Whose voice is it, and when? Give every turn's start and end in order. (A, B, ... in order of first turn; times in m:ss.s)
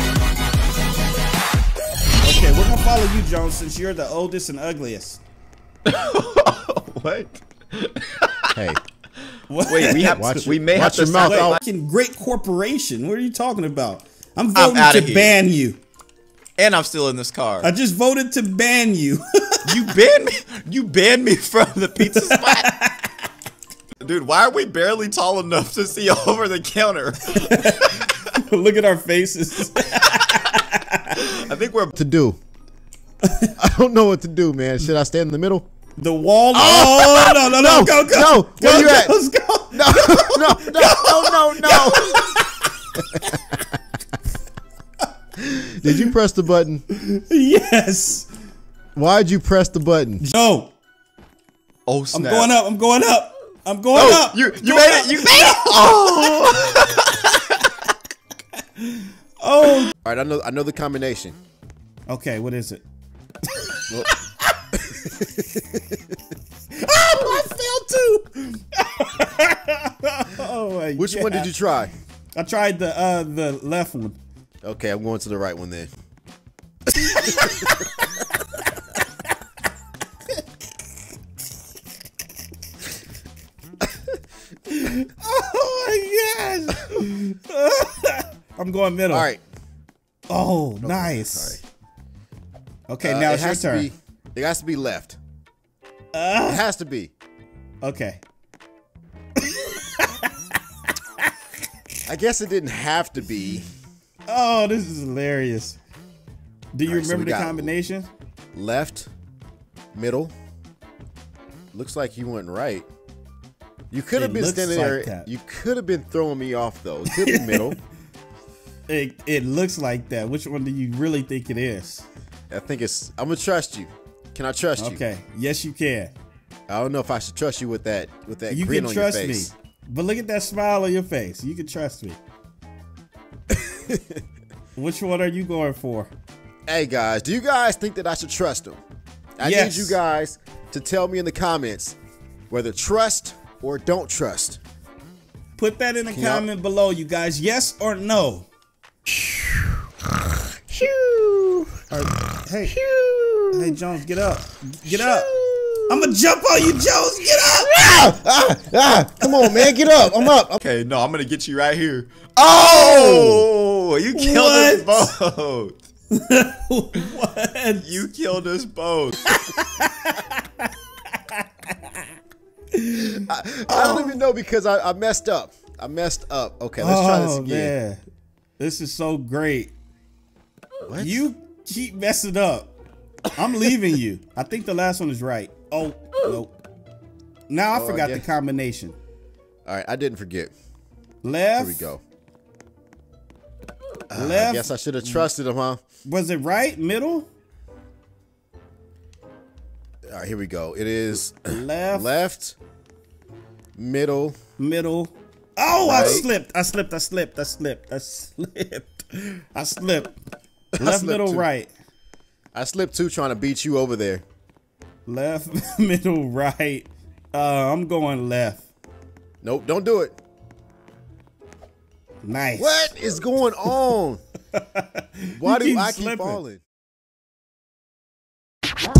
0:02.2-0:05.2 A
0:05.8-0:08.6 B
0:08.5-0:08.8 C
0:09.5-0:10.5 A
0:09.6-0:11.6 B
0:10.1-0:11.6 C
0:11.1-0:15.8 A
0:14.5-0:15.4 B
0:16.6-0:17.7 B
0:17.6-0:19.7 A
0:19.6-0:22.7 B
0:22.0-0:23.1 A
0:24.0-0:28.1 B
0:27.3-0:31.2 A
0:31.1-0:31.9 B
0:31.9-0:32.4 C
0:33.5-0:35.7 C
0:36.0-0:43.4 A
0:36.5-0:39.2 C
0:39.7-0:42.3 C
0:45.5-0:46.8 C
0:45.8-0:46.1 A
0:46.9-0:48.3 A
0:48.9-0:50.2 C
0:50.2-0:50.7 A
0:51.9-0:52.5 B
0:52.1-0:56.2 A
0:53.9-0:57.8 B
0:58.8-0:59.9 A
1:00.0-1:01.4 C
1:02.1-1:02.8 A
1:03.5-1:03.8 A
1:04.9-1:06.0 C
1:06.8-1:11.5 A
1:11.0-1:11.9 C
1:12.3-1:14.2 A
1:14.6-1:15.9 C
1:17.0-1:18.0 A
1:17.0-1:17.7 C
1:24.7-1:29.3 A
1:29.1-1:29.4 C
1:30.3-1:31.6 A
1:30.8-1:31.6 C
1:32.9-1:33.9 A
1:33.0-1:35.2 C
1:36.1-1:36.6 A
1:36.4-1:37.1 C
1:37.8-1:38.2 A
1:39.4-1:40.3 A
1:42.0-1:43.7 C
1:44.3-1:45.8 A
1:46.7-1:48.1 A
1:46.8-1:47.7 C
1:48.5-1:49.1 C
1:49.9-1:50.3 C
1:51.7-1:52.9 C
1:53.9-1:57.8 C
1:54.1-1:55.3 A
1:57.1-1:57.7 A
1:58.9-2:02.1 A
2:02.5-2:05.0 C
2:04.8-2:06.1 A
2:06.7-2:09.5 C
2:08.5-2:12.2 A
2:13.5-2:14.2 C
2:14.7-2:16.1 A
2:16.7-2:18.8 C
2:19.4-2:22.0 C
2:19.4-2:20.0 A
2:22.5-2:24.6 C
2:25.6-2:28.5 A
2:26.1-2:26.5 C
2:29.1-2:31.8 C
2:31.9-2:32.8 A
2:32.6-2:33.8 C
2:33.5-2:35.3 A
2:34.8-2:36.1 C
2:35.9-2:38.2 A
2:37.6-2:40.6 C
2:39.2-2:39.7 A
2:40.6-2:45.8 B
2:42.6-2:43.4 A
2:44.1-2:45.1 A
2:46.1-2:47.9 A
2:47.8-2:49.3 B
2:49.3-2:52.0 A
2:52.7-2:54.2 A
2:53.0-2:57.7 C
2:56.8-2:58.0 A
2:58.6-2:59.7 A
3:00.8-3:01.2 C
3:01.0-3:02.7 A
3:03.3-3:06.6 A
3:07.5-3:09.0 A
3:07.7-3:08.2 C
3:09.6-3:10.5 C
3:11.2-3:11.9 A
3:11.6-3:12.0 C
3:14.1-3:15.8 C
3:14.1-3:15.3 A
3:16.0-3:17.3 A
3:20.1-3:22.6 C
3:21.5-3:22.1 A
3:23.8-3:24.4 C
3:24.6-3:30.1 A
3:25.8-3:26.2 C
3:30.7-3:31.5 C
3:30.8-3:31.7 A
3:32.5-3:34.2 C
3:35.0-3:38.7 A
3:39.4-3:40.2 C
3:42.2-3:43.0 A
3:42.6-3:44.2 C
3:44.5-3:46.4 A
3:45.4-3:46.6 C